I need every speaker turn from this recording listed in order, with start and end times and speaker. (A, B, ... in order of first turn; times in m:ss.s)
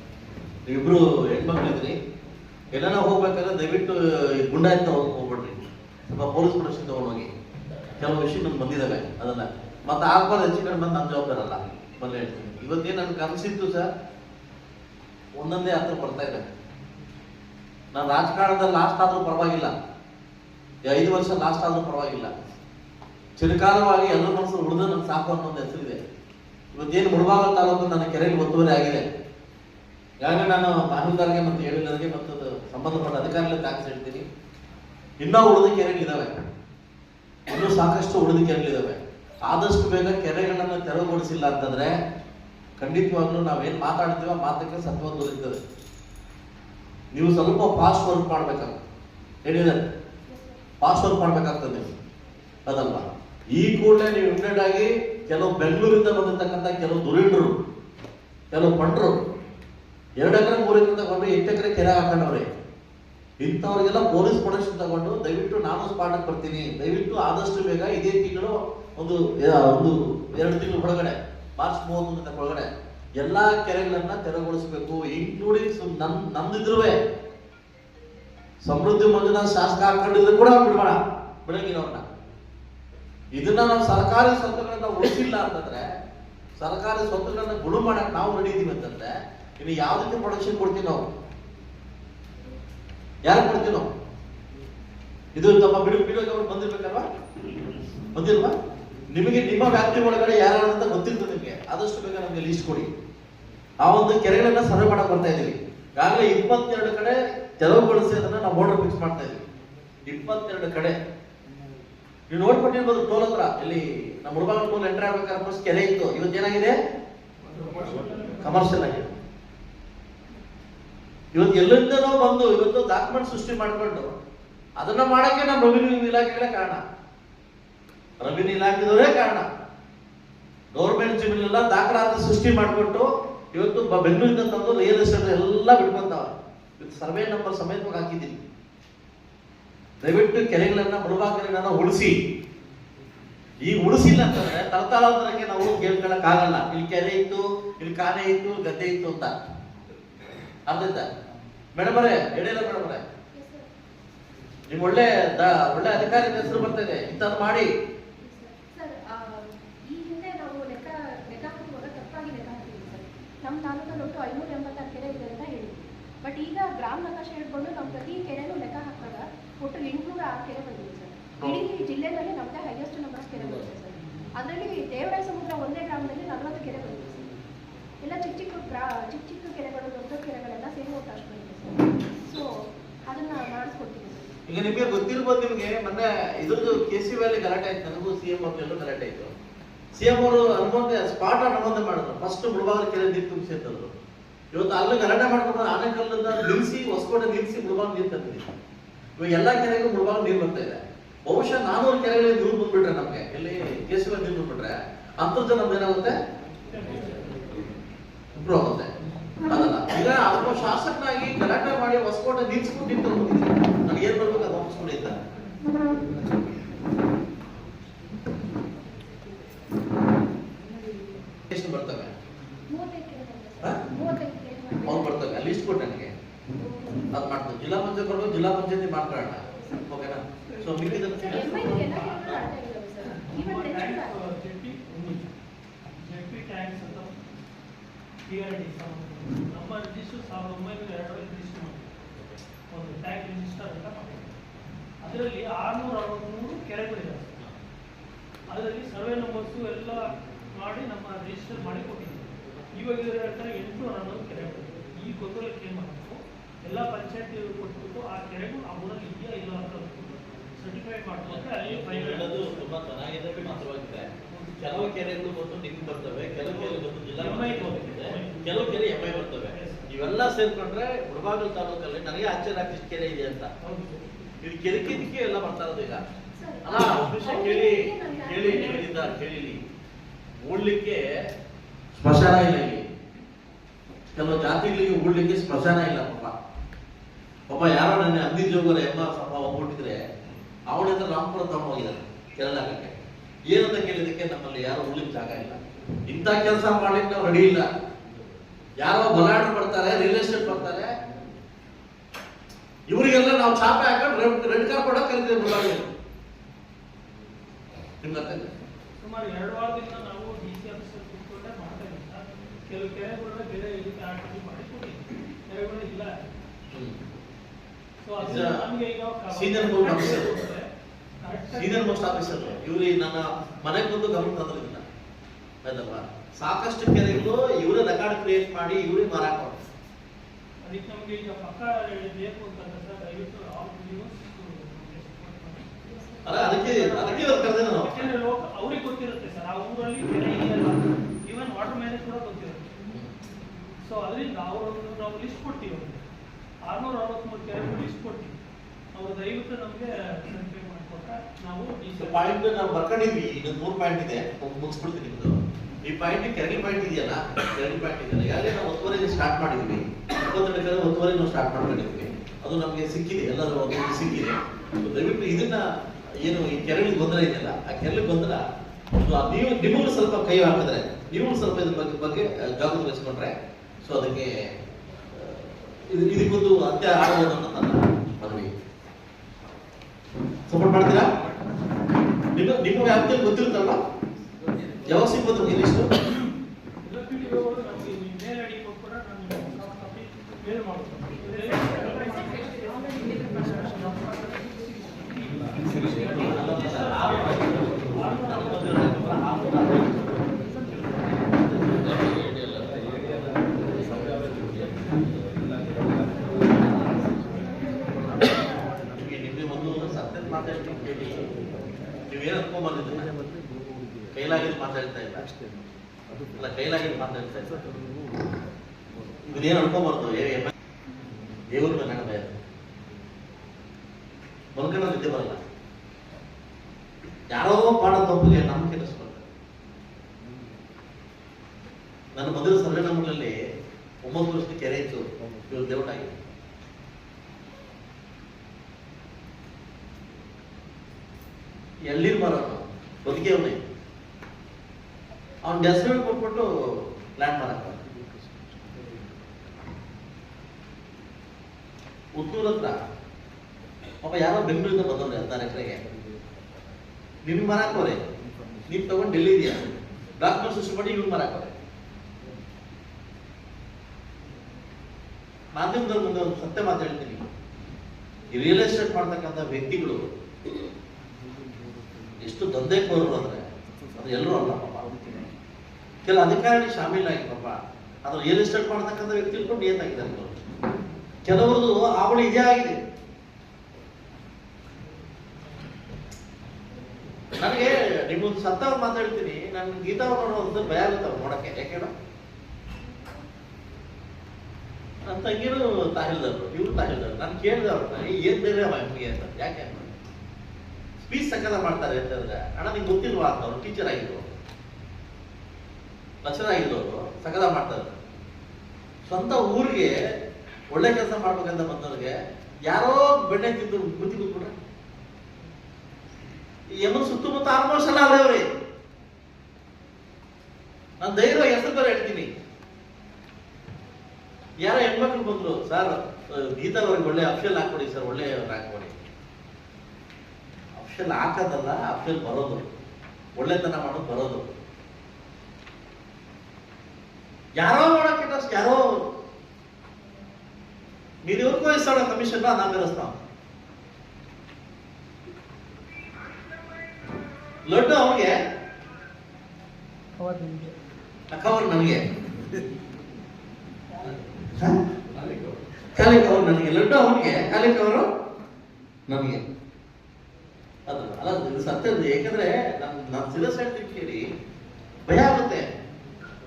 0:00.7-0:02.0 A
0:02.7-0:07.3 A
0:08.0-0:13.9 A
0:15.4-0:16.5 A
0:17.9-0:19.8 A
0:20.9-0:22.3 A
0:23.4-0:26.0 A
0:26.7-0:29.0 A
0:30.2-0:34.2 A
0:35.2-0:36.3 A
0:37.5-0:41.9 A
0:42.8-0:45.6 A
0:47.1-0:48.8 A
0:49.4-0:49.9 A
0:50.3-0:50.6 B
0:50.8-0:51.9 A
0:52.7-0:57.6 A
0:58.5-0:59.2 A
1:00.2-1:02.5 A
1:03.4-1:12.7 A
1:13.2-1:17.0 A
1:18.6-1:22.0 A
1:23.3-1:25.9 A
1:26.6-1:31.0 A
1:33.2-1:33.9 A
1:35.4-1:37.1 A
1:38.1-1:38.6 A
1:39.1-1:42.9 A
1:43.8-1:49.4 A
1:50.1-1:51.0 A
1:52.3-1:56.8 A
1:57.5-1:58.9 C
1:58.4-1:59.1 A
2:01.3-2:04.2 A
2:04.8-2:06.8 A
2:08.2-2:09.5 A
2:10.7-2:18.4 A
2:20.0-2:22.2 A
2:23.6-2:29.4 A
2:30.7-2:31.1 A
2:31.8-2:33.0 A
2:33.3-2:33.7 B
2:34.7-2:37.7 A
2:38.2-2:57.4 B
2:51.4-2:51.7 A
2:58.0-3:04.4 B
3:04.5-3:09.3 A
3:10.0-3:14.0 A
3:14.5-3:18.4 A
3:19.2-3:26.2 A
3:26.7-3:27.4 C
3:28.4-3:28.9 A
3:29.5-3:35.2 A
3:41.5-3:42.1 A
3:42.7-3:45.3 B
3:44.8-3:46.1 A
3:46.6-3:47.2 B
3:47.1-3:52.1 A
3:49.5-3:49.9 B
3:50.6-3:55.3 C
3:51.2-3:54.2 B
3:56.0-3:57.2 C
3:58.3-4:01.9 C
4:02.7-4:04.3 C
4:05.0-4:07.4 C
4:08.5-4:22.7 C
4:21.2-4:33.5 A
4:24.3-4:24.8 C
4:27.2-4:29.9 C
4:33.6-4:34.0 C
4:34.4-4:36.0 A
4:36.3-4:39.2 B
4:36.6-4:39.6 A
4:40.4-4:41.0 A
4:41.9-4:42.9 A
4:44.2-4:46.4 A
4:47.5-4:50.0 A
4:50.7-4:57.7 A
4:58.8-5:00.9 A
5:02.9-5:05.9 A
5:08.0-5:08.5 A
5:09.0-5:16.2 C
5:16.7-5:17.0 A
5:18.0-5:20.7 C
5:18.2-5:18.6 A
5:19.3-5:20.4 A
5:21.2-5:22.6 C
5:21.6-5:24.8 A
5:25.6-5:29.6 A
5:30.6-5:35.7 C
5:35.8-5:36.6 B
5:36.2-5:38.1 A
5:36.4-5:42.8 C
5:43.8-5:46.0 C
5:46.6-5:48.4 C
5:48.9-5:52.4 C
5:52.0-6:05.7 A
6:06.2-6:08.4 A
6:09.0-6:14.3 A
6:15.1-6:18.5 A
6:20.5-6:21.1 A
6:22.4-6:23.8 A
6:24.8-6:26.0 A
6:26.8-6:39.1 C
6:36.2-6:44.8 A
6:49.0-6:51.4 A
6:52.1-6:53.1 A
6:54.1-6:55.3 A
6:56.4-6:57.7 A
6:59.2-7:00.5 A
7:01.5-7:02.4 A
7:04.6-7:05.4 A
7:07.3-7:09.3 A
7:12.2-7:13.4 A
7:14.0-7:16.2 A
7:21.9-7:23.6 A
7:25.4-7:27.8 A
7:32.2-7:32.8 A
7:34.0-7:35.8 A
7:37.2-7:38.0 A
7:38.7-7:41.5 A
7:45.6-7:47.3 A
7:48.3-7:50.1 A
7:52.2-7:54.9 A
7:56.0-8:00.4 A
8:01.2-8:02.8 A
8:07.3-8:11.9 A
8:15.0-8:19.9 A
8:21.0-8:24.3 A
8:26.2-8:27.9 A
8:29.1-8:30.0 A
8:30.7-8:32.1 A
8:32.7-8:34.6 A
8:36.8-8:38.5 A
8:41.0-8:42.3 A
8:44.6-8:49.0 A
8:50.8-8:52.6 A
8:53.4-8:54.5 A
8:57.6-8:59.0 A
9:01.2-9:03.1 A
9:07.7-9:08.3 A
9:10.3-9:10.7 C
9:11.3-9:12.0 A
9:14.5-9:14.8 A
9:15.9-9:18.1 A
9:19.1-9:19.4 A
9:20.9-9:24.2 A
9:25.1-9:25.7 A